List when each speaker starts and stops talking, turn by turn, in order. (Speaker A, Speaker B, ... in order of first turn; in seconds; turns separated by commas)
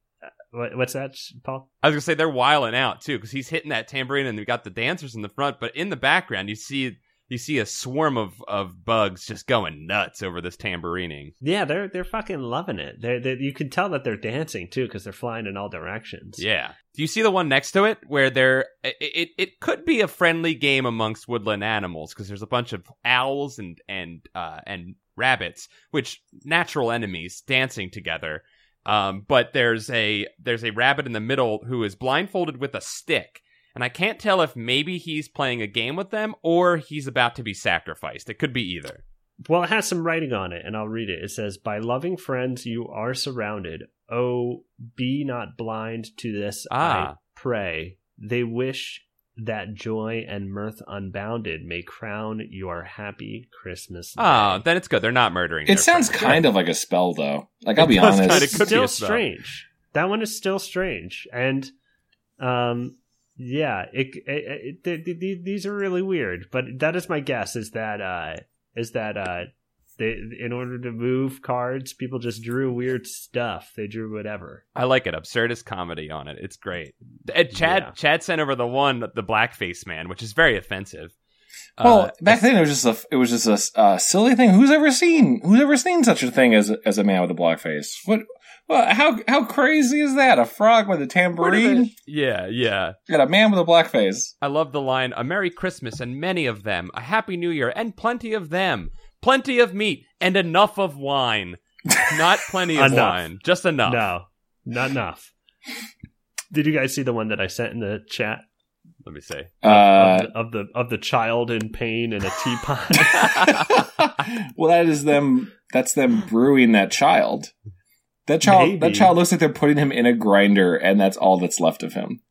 Speaker A: 0.5-1.7, Speaker B: 1.8-11.3, Speaker A: 11.4-16.4, Speaker B: 16.4-39.0, Speaker A: 39.5-54.6, Speaker B: 46.7-47.1, Speaker B: 54.2-56.4, Speaker C: 55.7-58.7, Speaker B: 57.8-59.2, Speaker A: 58.0-61.7, Speaker A: 62.4-74.6, Speaker B: 74.7-81.1, Speaker A: 77.5-77.9, Speaker B: 81.8-82.4, Speaker C: 81.8-91.9, Speaker B: 91.4-93.0, Speaker C: 93.1-94.3, Speaker B: 94.4-104.0, Speaker A: 102.7-103.2, Speaker A: 103.8-105.3, Speaker A: 106.5-108.4, Speaker B: 109.0-109.5, Speaker C: 109.6-110.3, Speaker A: 109.6-113.6, Speaker C: 113.4-117.5, Speaker C: 118.3-122.2, Speaker A: 118.4-119.2